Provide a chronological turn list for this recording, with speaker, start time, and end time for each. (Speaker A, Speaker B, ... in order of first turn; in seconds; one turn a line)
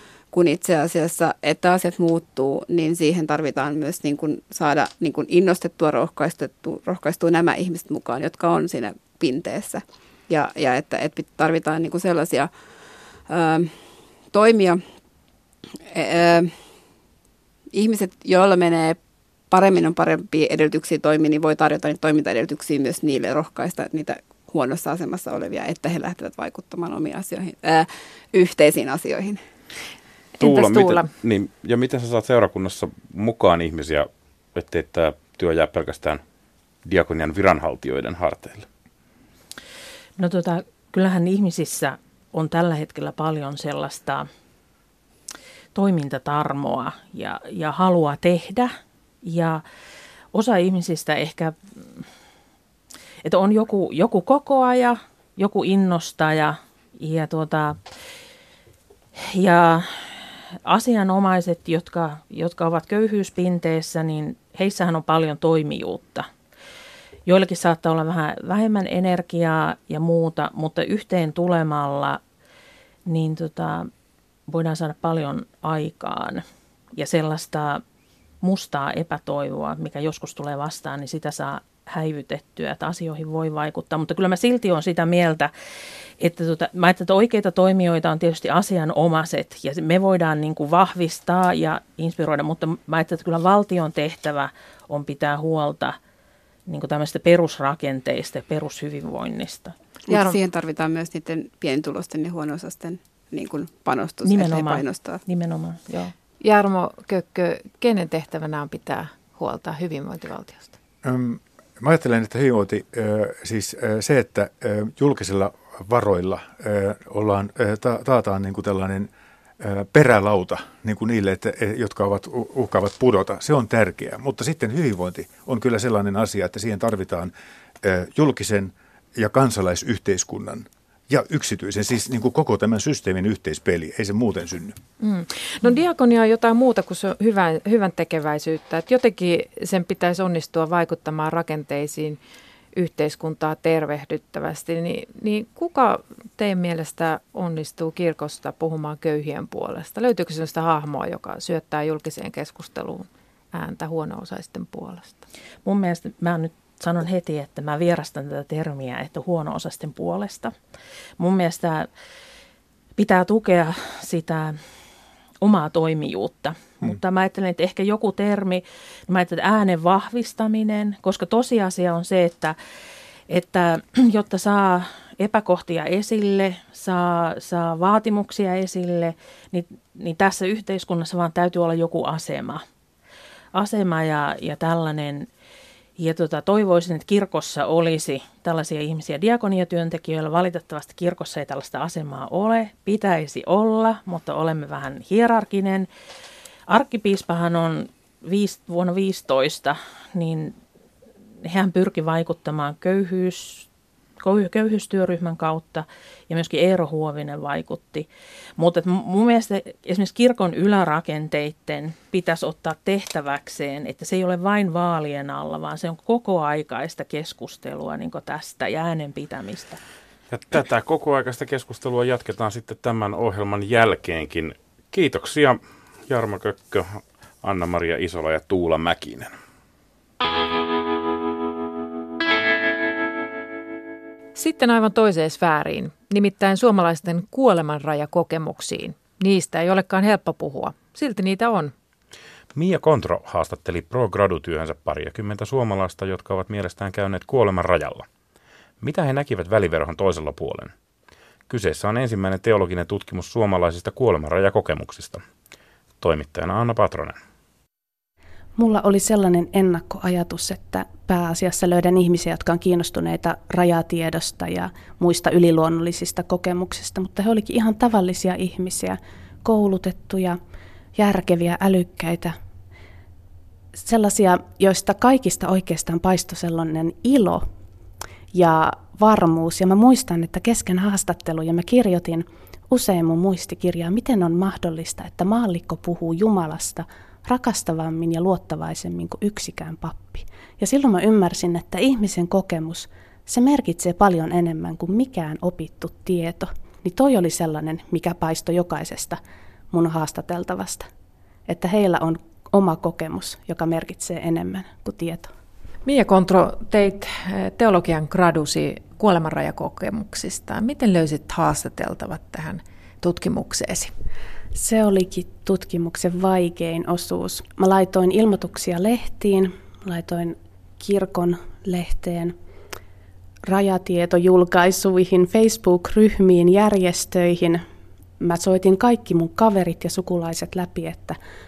Speaker A: 0.3-12.5
Speaker A: 13.3-13.7
Speaker A: 14.3-14.8
Speaker A: 15.9-16.6
Speaker A: 17.7-19.0
Speaker A: 19.5-29.4
Speaker B: 30.4-31.1
Speaker C: 30.4-36.2
Speaker C: 36.9-38.6
Speaker D: 40.2-44.3
Speaker D: 45.8-49.6
Speaker D: 50.3-52.0
Speaker D: 53.2-57.8
Speaker D: 59.2-60.1
Speaker D: 60.6-66.3
Speaker D: 67.3-72.2
Speaker D: 73.1-73.9
Speaker D: 74.5-76.4
Speaker D: 76.9-77.8
Speaker D: 78.4-85.5
Speaker D: 86.2-96.0
Speaker D: 96.7-99.7
Speaker B: 100.1-100.4
Speaker A: 100.1-105.2
Speaker D: 104.2-106.1
Speaker B: 106.4-110.7
Speaker E: 111.0-119.1
Speaker E: 119.6-134.8
Speaker B: 135.0-142.2
Speaker B: 142.8-155.2
Speaker D: 155.6-160.5
Speaker D: 161.2-161.9
Speaker D: 163.0-164.6
Speaker D: 165.4-172.6
Speaker D: 173.3-182.6
Speaker D: 183.5-185.3
Speaker D: 186.0-195.9
Speaker D: 196.7-200.6
Speaker D: 201.4-203.7
Speaker D: 204.2-208.1
Speaker D: 208.6-219.8
Speaker C: 220.3-229.3
Speaker B: 234.4-241.7
Speaker C: 242.6-248.1
Speaker C: 248.8-250.7
Speaker C: 251.5-255.2
Speaker C: 256.0-257.2
Speaker F: 258.6-270.4
Speaker F: 270.9-272.4
Speaker F: 273.8-277.4
Speaker F: 278.3-299.2
Speaker F: 299.7-300.9
Speaker F: 301.5-305.3
Speaker B: 305.9-313.9
Speaker F: 314.6-322.4
Speaker F: 323.5-327.6
Speaker F: 328.2-331.2